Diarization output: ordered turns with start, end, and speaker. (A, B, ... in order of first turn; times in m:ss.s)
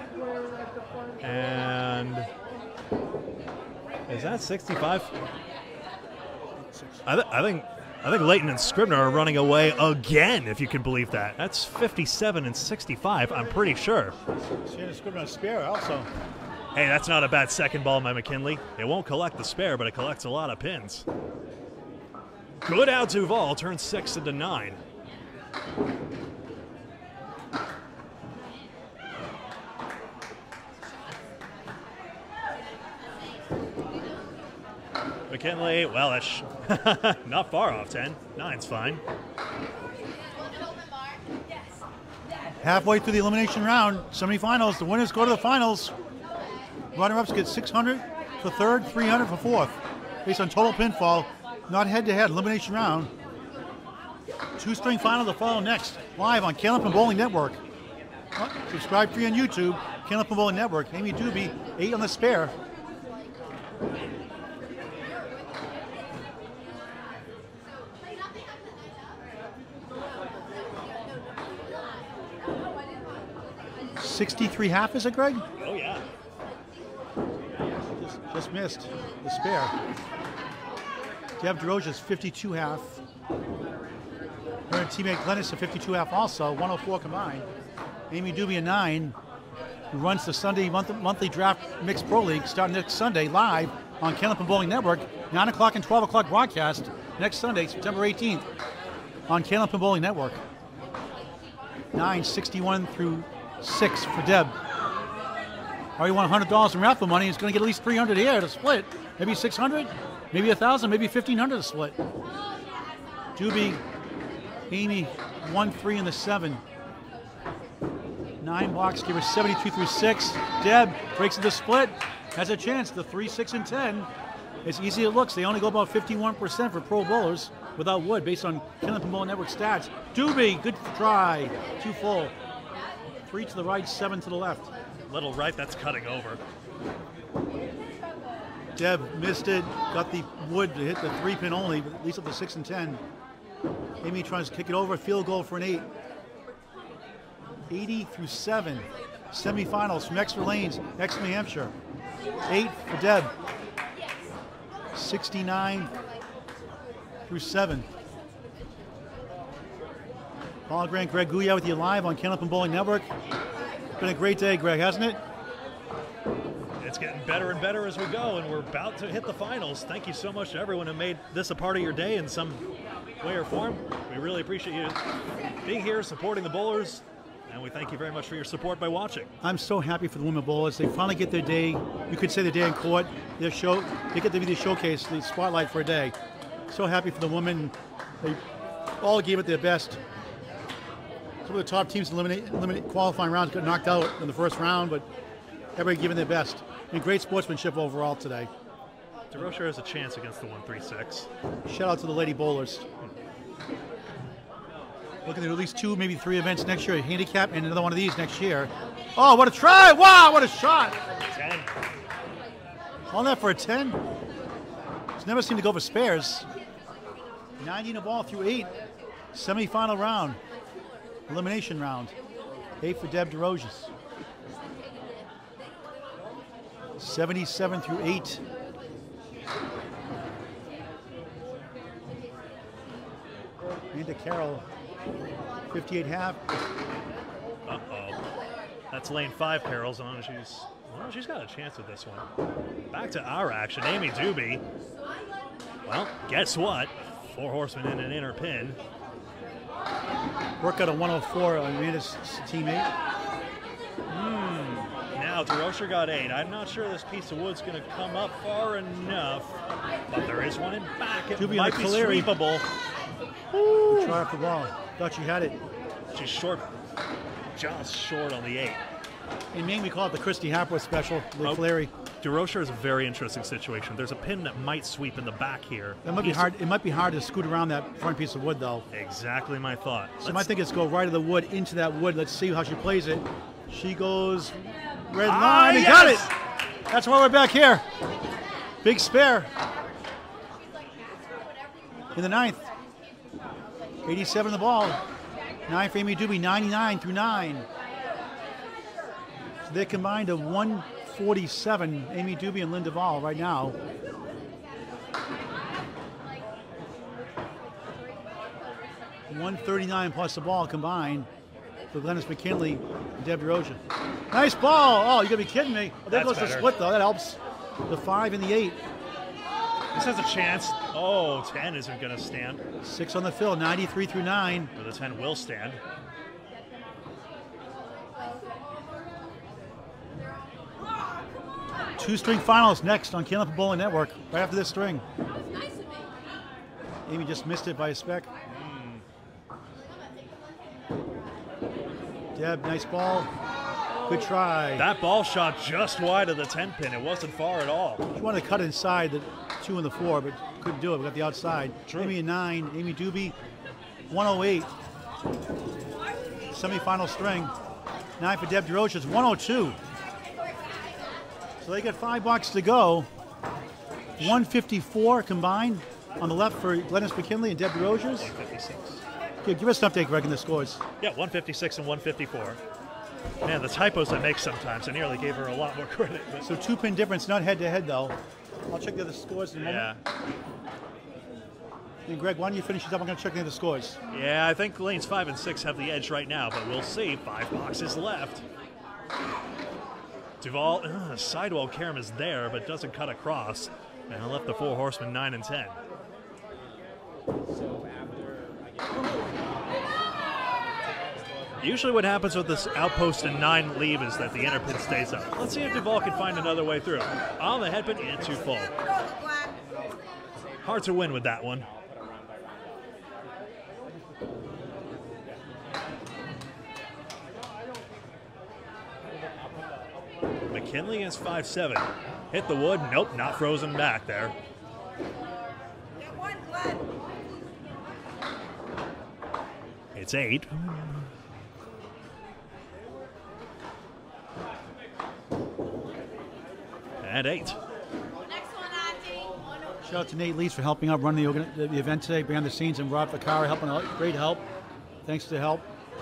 0:01.2-0:02.3 A
0:04.1-0:05.1 A
0:06.6-0:07.1 B
0:07.0-0:14.2 A
0:14.5-0:16.1 B
0:16.7-0:21.0 A
0:22.6-0:24.8 A
0:35.3-0:39.0 A
0:42.6-0:45.9 B
0:46.9-0:53.1 B
0:54.6-0:57.6 B
0:58.4-1:02.5 B
1:14.0-1:15.4 B
1:15.6-1:16.0 A
1:18.0-1:19.7 B
1:21.4-1:23.0 B
1:24.7-1:27.5 B
1:28.1-1:29.2 B
1:29.9-1:38.5 B
1:39.3-1:40.4 B
1:41.9-1:44.5 B
1:46.0-1:52.0 B
1:53.4-1:53.8 B
1:54.7-1:56.6 B
1:58.4-2:04.1 B
2:04.6-2:12.3 B
2:13.2-2:14.7 B
2:15.1-2:16.4 A
2:18.8-2:23.0 B
2:24.0-2:25.9 B
2:27.7-2:31.7 B
2:32.5-2:33.3 B
2:34.9-2:35.9 B
2:37.3-2:37.9 B
2:40.7-2:43.1 B
2:44.0-2:45.2 B
2:46.8-2:52.6 A
2:53.2-2:55.0 A
2:55.6-2:59.3 A
2:59.4-3:06.1 B
3:06.7-3:08.4 B
3:09.0-3:10.0 B
3:11.4-3:15.1 B
3:15.8-3:18.5 B
3:19.3-3:21.3 A
3:21.6-3:22.8 B
3:25.2-3:31.0 B
3:31.2-3:31.7 A
3:33.1-3:34.0 B
3:35.2-3:36.5 B
3:37.6-3:38.7 B
3:39.3-3:40.4 B
3:41.3-3:42.1 B
3:42.8-3:43.9 B
3:47.0-3:48.4 B
3:53.9-3:54.6 B
3:55.7-3:56.4 B
3:57.6-3:58.2 A
3:58.9-4:02.3 A
4:02.9-4:04.6 A
4:05.8-4:08.8 A
4:10.6-4:12.9 B
4:14.1-4:19.6 A
4:20.1-4:22.6 A
4:21.4-4:22.4 B
4:23.5-4:24.2 A
4:23.9-4:25.6 B
4:26.1-4:26.6 A
4:27.6-4:28.8 A
4:29.5-4:31.9 B
4:31.4-4:36.5 A
4:36.0-4:38.8 B
4:38.9-4:40.5 A
4:40.2-4:46.4 B
4:45.2-4:46.3 A
4:46.9-4:47.8 B
4:48.8-4:49.5 B
4:52.1-4:52.7 B
4:54.0-4:55.0 B
4:55.7-4:57.6 B
4:59.6-5:03.8 B
5:09.3-5:11.3 B
5:11.9-5:13.8 B
5:14.3-5:18.8 B
5:16.1-5:16.7 A
5:19.9-5:22.6 A
5:22.8-5:24.7 B
5:24.8-5:25.8 A
5:32.0-5:35.0 B
5:37.0-5:38.3 B
5:38.5-5:39.0 A
5:42.4-5:43.3 B
5:44.1-5:44.9 B
5:44.8-5:48.0 A
5:48.1-5:53.4 B
5:51.8-5:52.2 A
5:54.1-5:54.7 B
5:56.5-5:57.5 B
5:58.2-5:59.8 B
6:01.6-6:03.1 B
6:04.2-6:08.3 B
6:08.2-6:09.0 A
6:09.4-6:10.8 B
6:11.0-6:12.6 A
6:13.4-6:16.6 A
6:16.4-6:18.1 B
6:18.7-6:20.0 B
6:19.6-6:20.0 A
6:22.0-6:24.0 B
6:24.1-6:28.4 A
6:30.4-6:35.8 A
6:37.5-6:39.9 C
6:40.8-6:41.8 C
6:41.6-6:48.7 A
6:50.3-6:52.9 C
6:50.6-6:51.7 A
7:00.5-7:04.4 A
7:09.9-7:11.1 A
7:17.0-7:17.6 A
7:19.8-7:24.4 B
7:25.0-7:25.7 B